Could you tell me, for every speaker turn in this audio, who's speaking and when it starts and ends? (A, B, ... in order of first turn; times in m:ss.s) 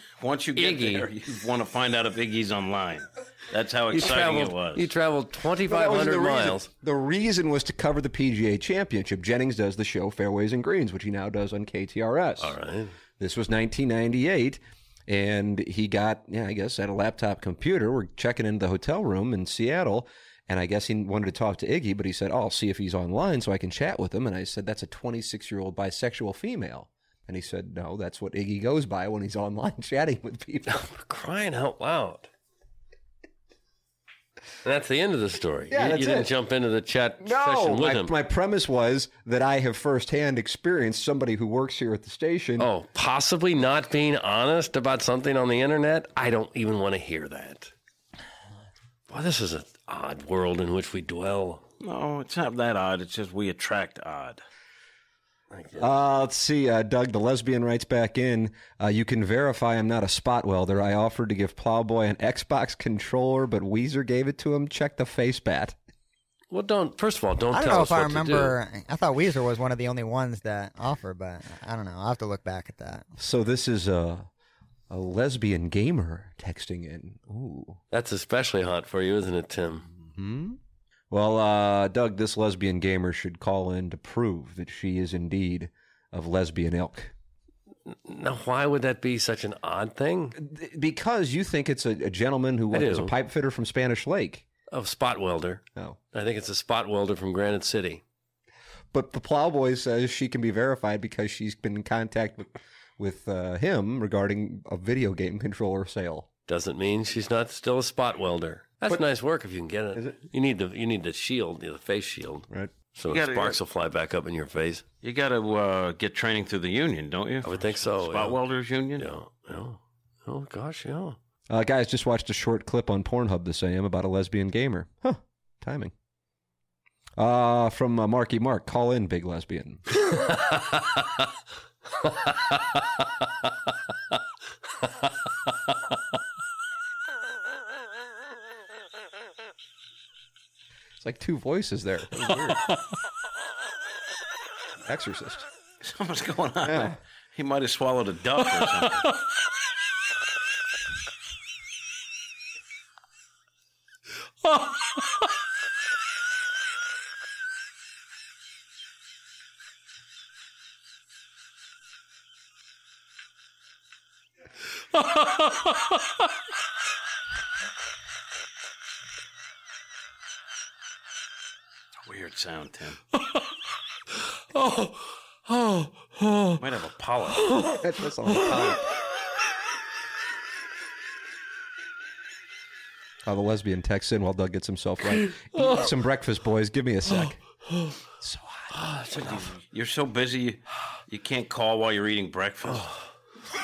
0:00.2-0:04.9 A
0:00.6-0:01.1 B
0:03.9-0:06.7 B
0:05.7-0:12.6 C
0:12.4-0:12.9 B
0:13.2-0:30.8 C
0:30.7-0:32.3 B
0:34.6-0:38.1 B
0:35.7-0:36.3 C
0:37.2-0:42.7 C
0:42.6-0:47.7 B
0:49.1-0:51.6 B
0:51.8-0:54.4 A
0:55.5-0:55.9 B
0:55.8-1:05.8 C
1:06.5-1:08.6 B
1:07.5-1:13.1 D
1:13.2-1:14.3 C
1:14.9-1:17.8 C
1:17.9-1:19.9 B
1:20.0-1:20.6 C
1:21.1-1:27.1 C
1:27.9-1:30.4 B
1:30.4-1:34.4 C
1:32.7-1:33.2 B
1:34.7-1:38.0 B
1:38.9-1:46.3 C
1:46.5-1:54.9 B
1:53.1-1:53.6 A
1:55.0-1:59.1 A
1:57.4-1:58.4 B
1:59.0-2:01.2 B
2:01.5-2:05.9 C
2:07.2-2:09.9 C
2:10.0-2:10.9 B
2:21.0-2:22.6 C
2:24.8-2:25.5 C
2:25.8-2:29.1 A
2:26.6-2:27.0 C
2:52.0-2:53.0 A
2:54.6-2:56.6 B
2:56.6-2:57.4 A
2:57.4-2:58.8 B
2:57.8-2:58.8 C
3:03.2-3:07.4 C
3:05.6-3:05.9 B
3:07.1-3:08.0 B
3:08.2-3:08.7 C
3:08.7-3:09.6 B
3:09.3-3:12.9 A
3:12.7-3:13.0 B